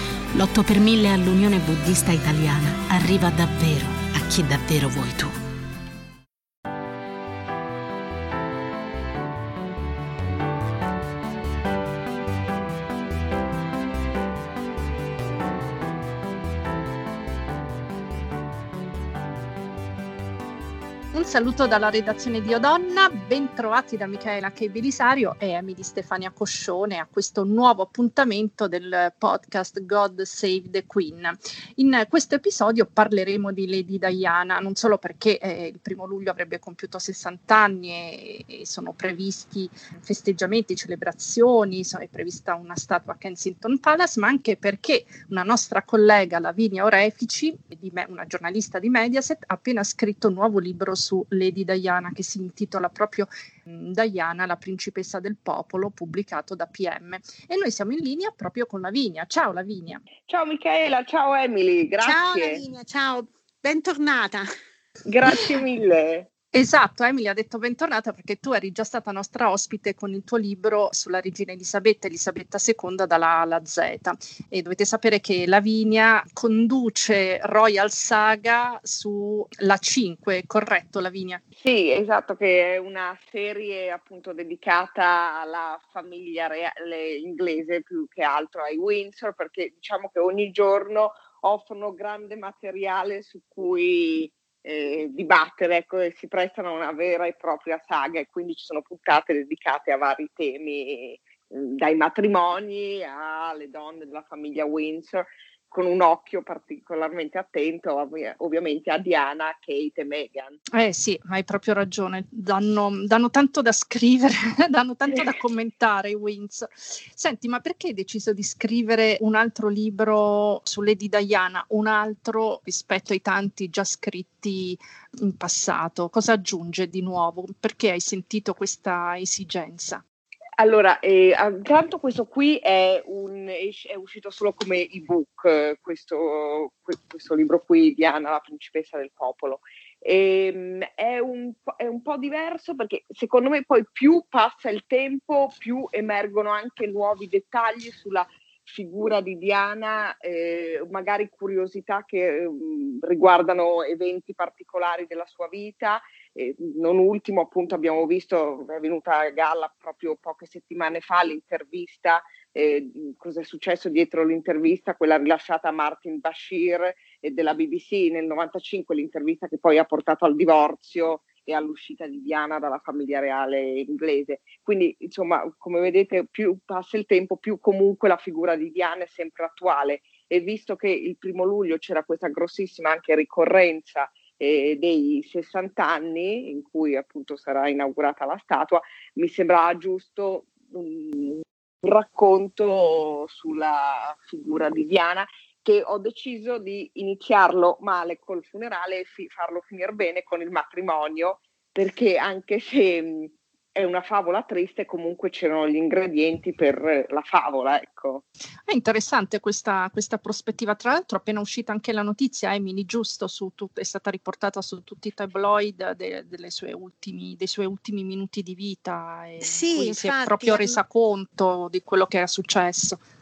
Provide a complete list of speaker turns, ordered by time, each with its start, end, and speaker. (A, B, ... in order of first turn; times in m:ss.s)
0:00.3-0:05.3 A
0:21.1-1:00.0 B
1:00.3-1:02.6 C
1:02.0-1:04.5 D
1:05.0-1:06.3 C
1:06.5-1:21.4 B
1:21.6-1:50.6 C
1:50.7-2:10.0 B
2:10.6-3:28.2 C
3:28.7-3:43.0 B
3:39.4-3:40.8 D